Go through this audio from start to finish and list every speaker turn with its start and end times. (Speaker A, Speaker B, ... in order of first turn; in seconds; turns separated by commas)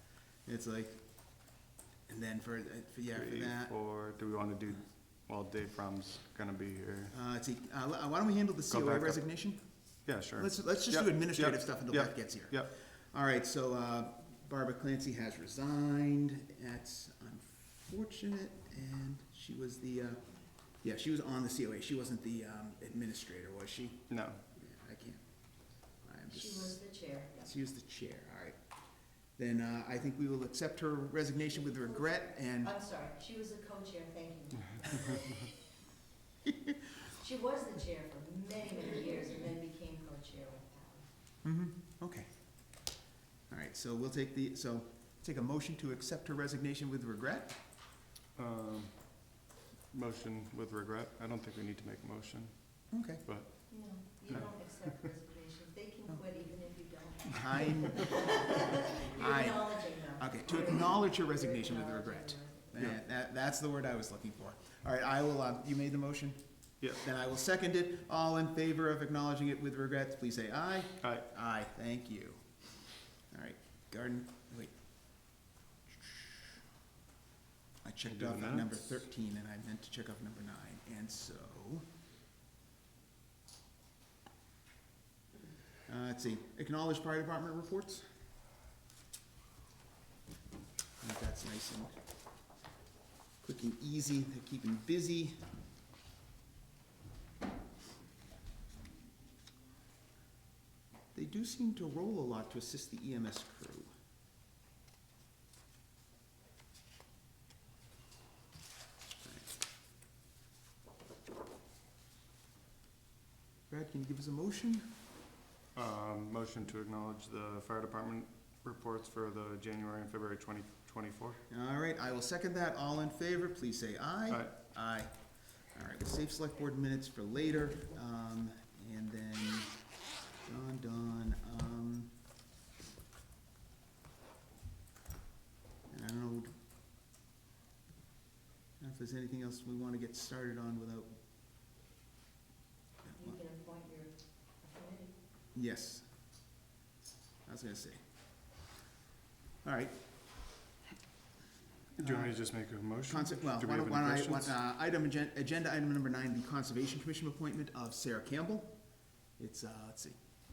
Speaker A: 0.5-1.0, Speaker A: 2.1-3.7, Speaker B: 3.1-7.2, Speaker A: 7.1-9.6, Speaker B: 8.7-9.2, Speaker B: 10.1-12.7, Speaker A: 10.4-20.2, Speaker A: 20.8-25.2, Speaker B: 24.1-24.4, Speaker A: 26.0-26.8, Speaker C: 26.3-27.4, Speaker A: 27.4-28.6, Speaker A: 29.4-32.8, Speaker C: 32.6-35.5, Speaker C: 37.1-41.1, Speaker A: 41.4-42.3, Speaker A: 43.5-47.6, Speaker B: 48.4-49.3, Speaker B: 49.9-54.9, Speaker A: 52.9-53.2, Speaker C: 53.7-62.9, Speaker A: 57.3-66.4, Speaker A: 67.0-72.5, Speaker A: 73.3-74.7, Speaker A: 75.9-76.4, Speaker A: 77.8-81.9, Speaker B: 78.1-78.9, Speaker A: 85.9-88.0, Speaker A: 91.0-91.9, Speaker A: 93.4-95.4, Speaker A: 101.1-103.9, Speaker A: 113.7-114.9, Speaker B: 115.8-121.4, Speaker A: 121.5-125.1, Speaker A: 125.7-129.7, Speaker A: 130.4-132.1, Speaker A: 135.9-136.5, Speaker A: 138.8-141.2, Speaker A: 143.1-143.4, Speaker C: 143.1-145.1, Speaker A: 145.6-146.1, Speaker A: 147.5-148.0, Speaker A: 149.6-150.0, Speaker B: 152.0-154.6, Speaker A: 152.0-152.3, Speaker A: 153.1-158.8, Speaker A: 159.4-160.2